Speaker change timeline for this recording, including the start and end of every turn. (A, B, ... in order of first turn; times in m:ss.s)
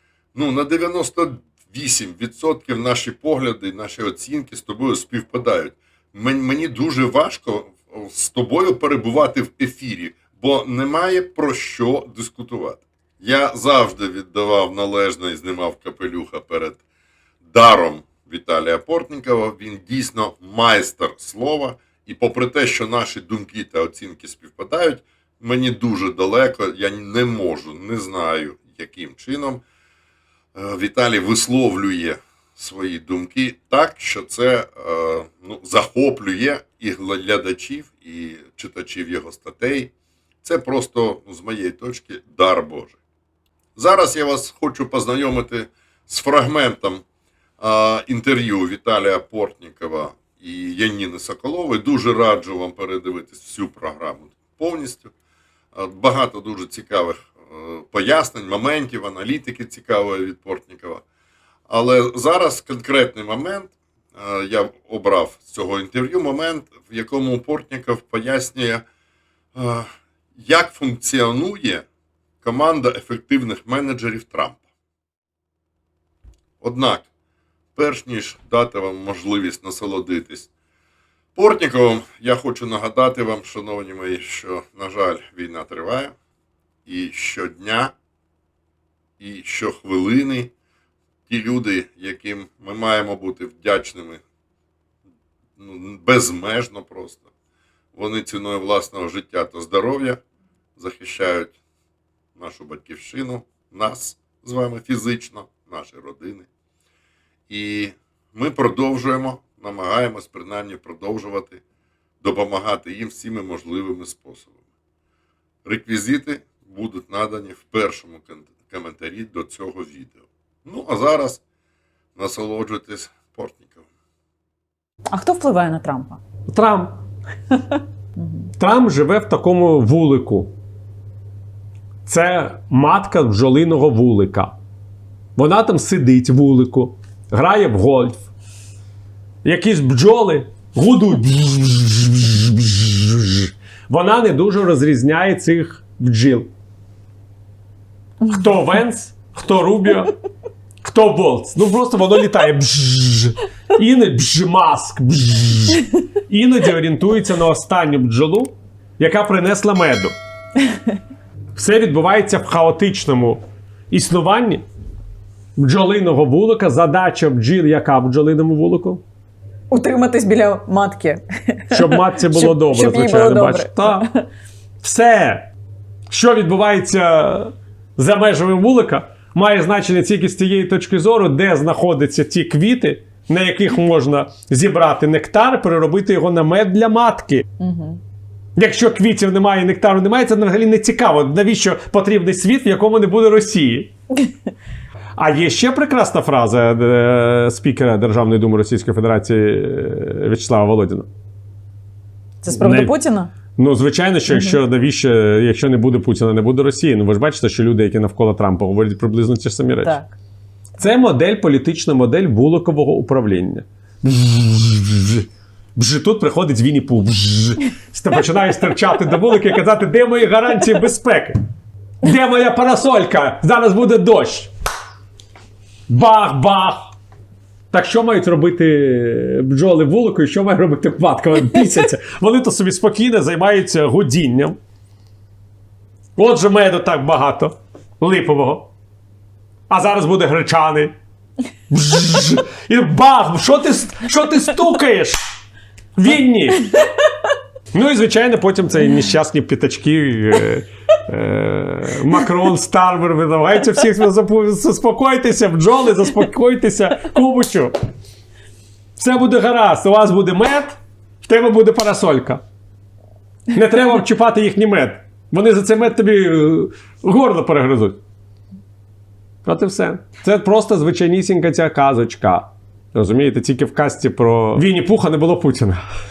0:00.3-0:16.8 A
0:17.4-0:29.6 A
0:30.6-0:39.9 A
0:40.4-0:43.0 A
0:43.8-0:47.0 A
0:47.6-0:55.1 A
0:55.7-1:01.0 A
1:01.7-1:08.8 A
1:09.6-1:11.8 A
1:12.4-1:14.6 A
1:16.6-1:17.1 A
1:17.8-1:20.5 A
1:21.4-1:26.1 A
1:26.8-1:27.9 A
1:29.2-1:30.5 A
1:31.3-1:34.2 A
1:35.6-1:37.3 A
1:37.9-1:40.2 A
1:40.8-1:41.6 A
1:42.4-1:46.5 A
1:47.5-1:51.6 A
1:52.2-1:54.6 A
1:55.6-2:01.4 A
2:02.2-2:03.8 A
2:05.1-2:06.2 B
2:06.5-2:07.0 C
2:08.2-2:08.5 B
2:08.6-2:10.5 C
2:12.1-2:14.6 C
2:15.4-2:18.3 C
2:19.4-2:26.5 C
2:28.3-2:30.2 C
2:30.8-2:40.1 C
2:41.6-2:44.6 C
2:45.6-2:49.0 C
2:49.7-2:54.3 B
2:51.7-2:54.1 C
2:54.8-2:55.5 C
2:56.1-3:07.5 C
3:07.6-3:08.0 B
3:08.6-3:13.9 C
3:15.2-3:21.1 C
3:22.4-3:23.3 B
3:22.5-3:23.0 C
3:23.5-3:30.0 C
3:24.3-3:24.6 B
3:29.8-3:30.1 B
3:30.8-3:41.4 C
3:42.0-3:44.5 C
3:45.9-3:46.9 C
3:47.7-3:54.6 C
3:56.2-3:58.7 C
3:59.7-4:00.9 C
4:01.7-4:05.2 C
4:06.0-4:06.8 C
4:07.7-4:17.7 C
4:19.0-4:22.4 C
4:23.5-4:28.0 C
4:29.4-4:35.8 C